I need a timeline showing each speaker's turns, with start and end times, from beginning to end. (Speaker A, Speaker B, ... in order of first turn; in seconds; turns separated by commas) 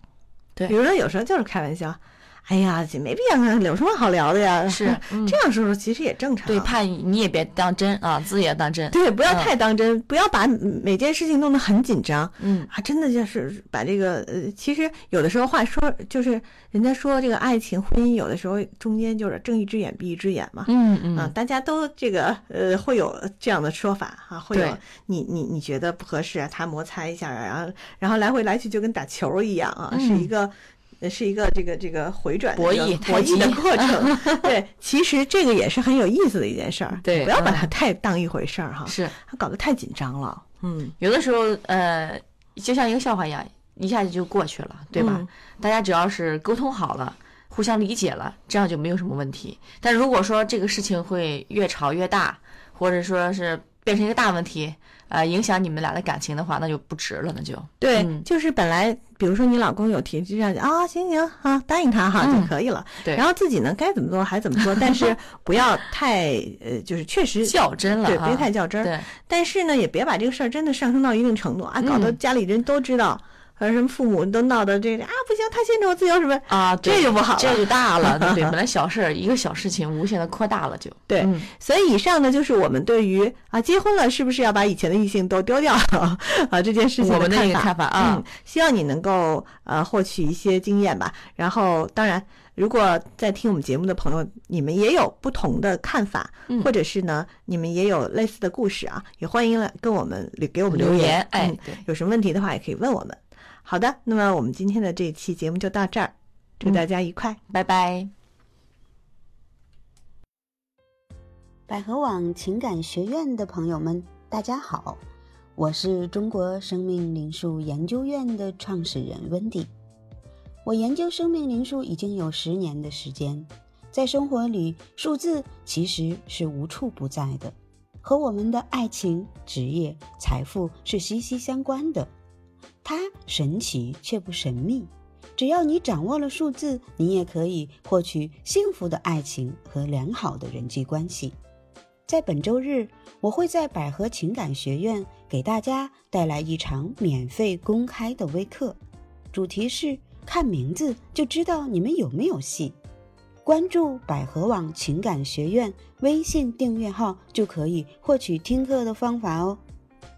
Speaker A: 0.7-6.8, Speaker B: 4.7-5.4, Speaker B: 6.4-9.5, Speaker A: 8.9-40.9, Speaker B: 12.4-12.7, Speaker B: 20.7-21.3, Speaker B: 24.5-24.8, Speaker B: 29.9-30.3, Speaker B: 32.5-34.5, Speaker B: 36.9-37.7, Speaker B: 38.9-39.1, Speaker B: 41.0-58.3, Speaker A: 45.0-45.3, Speaker A: 57.8-78.6, Speaker B: 62.2-62.5, Speaker B: 64.6-65.1, Speaker B: 67.4-69.1, Speaker B: 71.8-72.2, Speaker B: 76.5-81.5, Speaker A: 81.1-107.4, Speaker B: 87.0-88.2, Speaker B: 100.7-101.8, Speaker B: 107.5-108.1, Speaker C: 111.7-115.0, Speaker C: 115.6-119.7, Speaker C: 120.7-132.1, Speaker C: 132.8-141.3, Speaker C: 142.1-148.8, Speaker C: 149.3-152.8, Speaker C: 153.4-159.6